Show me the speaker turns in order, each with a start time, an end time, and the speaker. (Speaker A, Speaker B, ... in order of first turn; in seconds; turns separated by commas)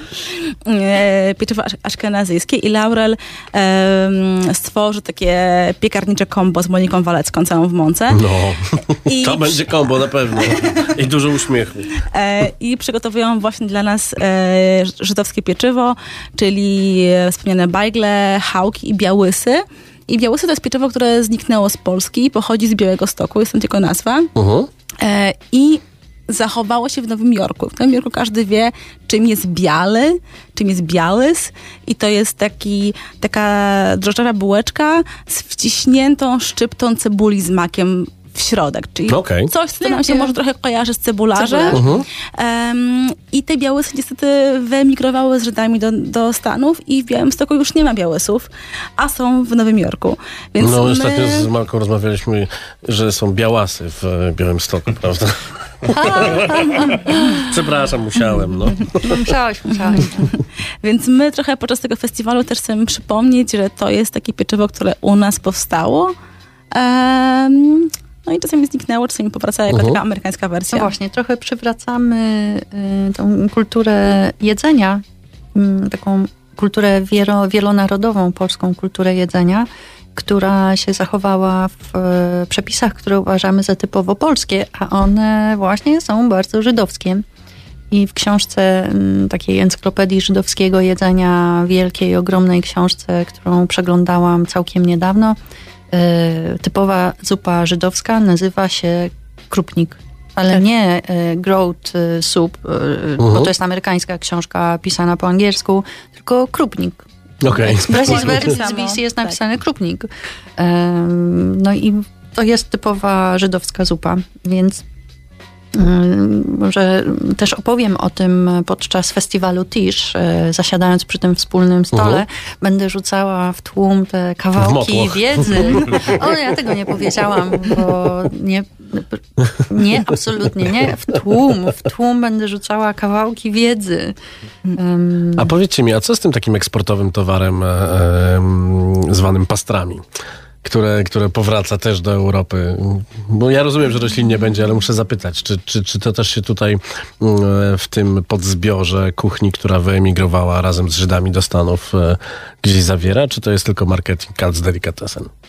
Speaker A: 0.7-8.2, Speaker B: 8.1-11.9, Speaker A: 9.1-10.8, Speaker A: 12.1-24.3, Speaker B: 24.4-24.7, Speaker A: 25.0-51.5, Speaker B: 39.1-39.5, Speaker C: 39.8-40.4, Speaker C: 41.4-41.8, Speaker B: 41.7-42.0, Speaker B: 50.6-57.0, Speaker C: 55.9-57.4, Speaker B: 57.5-59.2, Speaker C: 59.0-60.3, Speaker A: 60.8-66.1, Speaker A: 66.7-70.9, Speaker B: 69.7-70.0, Speaker C: 70.7-75.0, Speaker C: 75.5-87.2, Speaker C: 87.9-95.4, Speaker C: 95.9-114.8, Speaker B: 103.2-103.5, Speaker B: 107.4-108.6, Speaker A: 108.0-109.4, Speaker C: 115.7-134.2, Speaker B: 121.9-122.2, Speaker B: 124.6-126.2, Speaker C: 134.7-135.5, Speaker B: 135.4-140.0, Speaker B: 140.6-155.3